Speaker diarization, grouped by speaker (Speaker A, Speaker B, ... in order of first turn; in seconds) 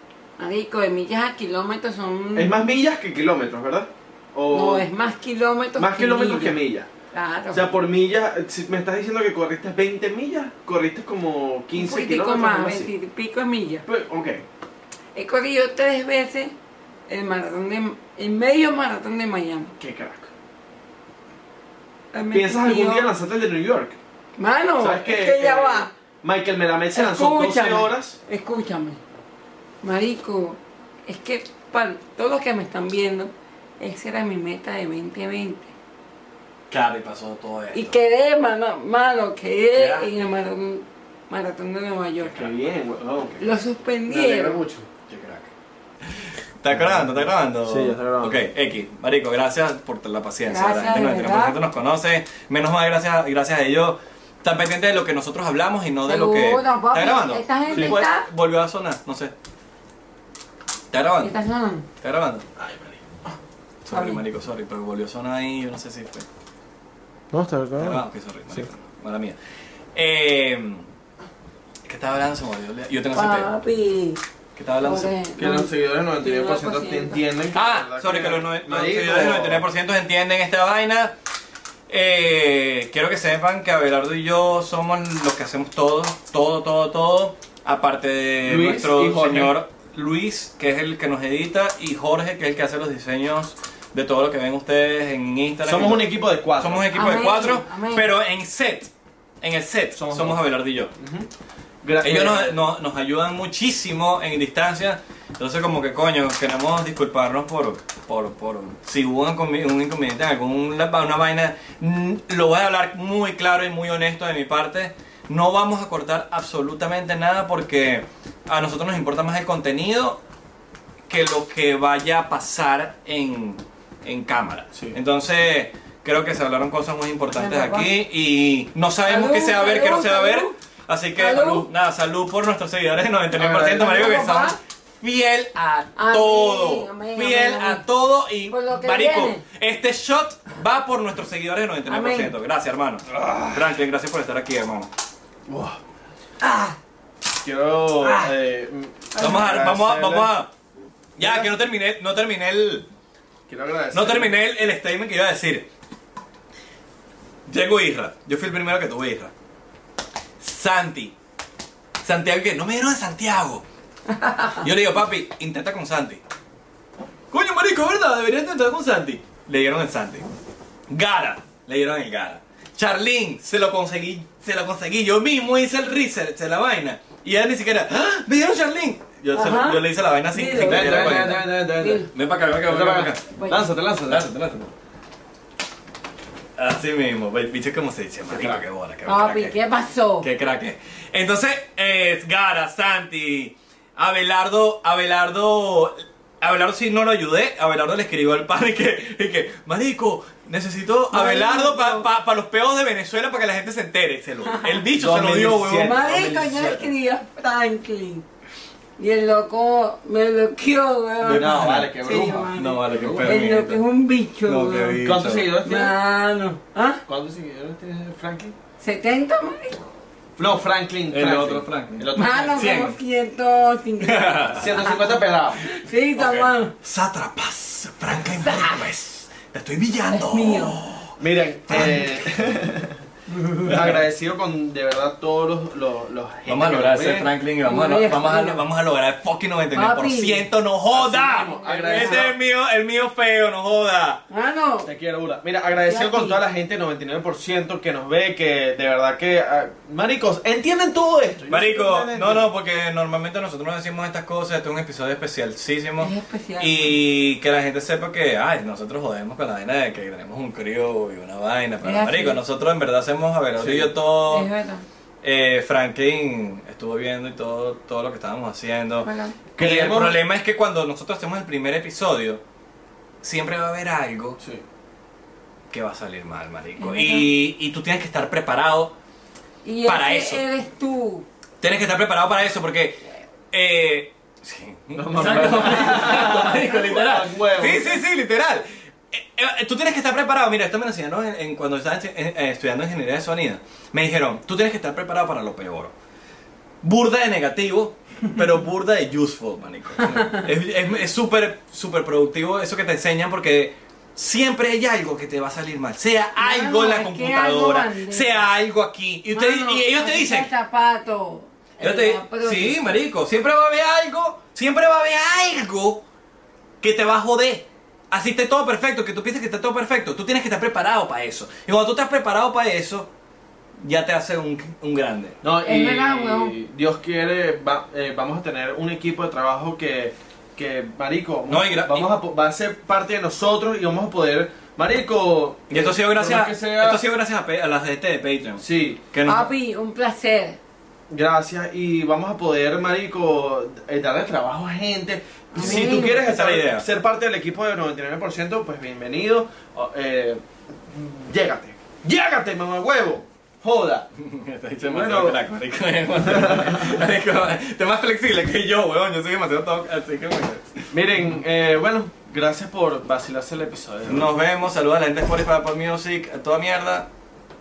Speaker A: 0.4-2.5, 4.5-6.6, 7.1-7.6, 11.7-13.8, 15.1-16.5, 17.1-19.7, 22.1-23.1, 24.4-25.9, 26.9-29.0, 29.8-35.7, 37.7-42.5, 43.4-44.6, 50.5-51.6, 56.0-58.3, 61.2-61.9, 63.9-64.2, 73.1-74.2, 74.8-77.2, 96.9-98.1, 127.3-127.9, 129.1-130.5, 131.2-131.7, 133.8-134.6, 135.9-137.8, 138.5-139.4, 141.9-142.3, 146.4-146.8, 149.1-149.7, 164.1-164.6, 179.3-182.1, 183.3-183.6, 189.1-190.3, 201.1-202.1, 204.5-204.8, 205.8-208.2, 209.0-215.0, 215.6-217.0, 218.8-219.8, 222.1-225.1, 225.6-226.7, 228.4-228.8, 230.1-230.8, 237.7-238.6, 239.7-240.5, 241.2-242.3, 244.3-244.9, 245.8-246.4, 256.0-256.9, 261.8-262.4, 264.3-264.8, 269.0-269.4, 276.8-277.3, 279.6-281.3, 300.0-300.5, 306.4-308.5, 309.3-312.9, 325.6-326.5, 339.2-340.6, 345.5-346.2
Speaker B: 2.4-4.9, 5.8-6.9, 7.5-12.9, 13.8-14.4, 19.8-20.3, 22.3-24.0, 24.8-28.2, 42.3-43.4, 44.1-44.9, 47.6-48.4, 57.7-58.0, 62.6-62.9, 67.3-68.7, 75.3-79.6, 88.4-89.5, 95.6-96.9, 100.0-100.4, 101.0-101.3, 101.8-102.6, 133.3-134.1, 143.1-143.7, 145.5-145.8, 147.4-150.3, 151.2-151.5, 153.5-154.3, 180.6-184.3, 188.3-188.6, 204.9-206.9, 211.2-213.4, 215.0-215.9, 217.1-218.5, 220.4-222.6, 224.6-225.6, 231.2-233.0, 233.5-237.3, 240.9-242.3, 244.8-252.5, 263.6-263.9, 269.6-270.2, 284.9-288.0, 325.4-337.0, 338.6-339.0, 341.1-354.1, 354.7-355.4, 356.3-356.9, 360.9-364.3
Speaker C: 36.7-38.0, 39.7-40.3, 42.2-42.7, 45.1-45.5, 46.0-59.3, 60.9-61.4, 62.0-62.4, 63.8-66.3, 67.8-69.3, 69.9-70.9, 71.8-73.5, 74.5-75.1, 77.5-81.1, 81.9-100.9, 102.0-120.2, 121.1-144.9, 149.2-150.5, 151.2-152.9, 153.9-155.7, 157.5-159.3, 160.4-161.1, 162.0-163.6, 164.6-166.2, 167.3-170.2, 170.9-181.4, 182.1-183.2, 184.1-184.7, 186.6-189.6, 190.2-206.1, 211.2-213.8, 214.4-215.5, 221.1-223.0, 224.0-224.8, 226.1-232.5, 233.4-234.0, 236.5-244.2, 251.5-264.5, 265.2-272.4, 273.2-274.4, 275.7-278.9, 279.8-280.4, 281.6-295.9, 296.8-310.5, 311.8-316.0, 316.8-323.1, 323.8-325.4, 331.5-332.1, 335.7-339.5, 345.6-346.9, 354.2-360.9, 364.1-367.1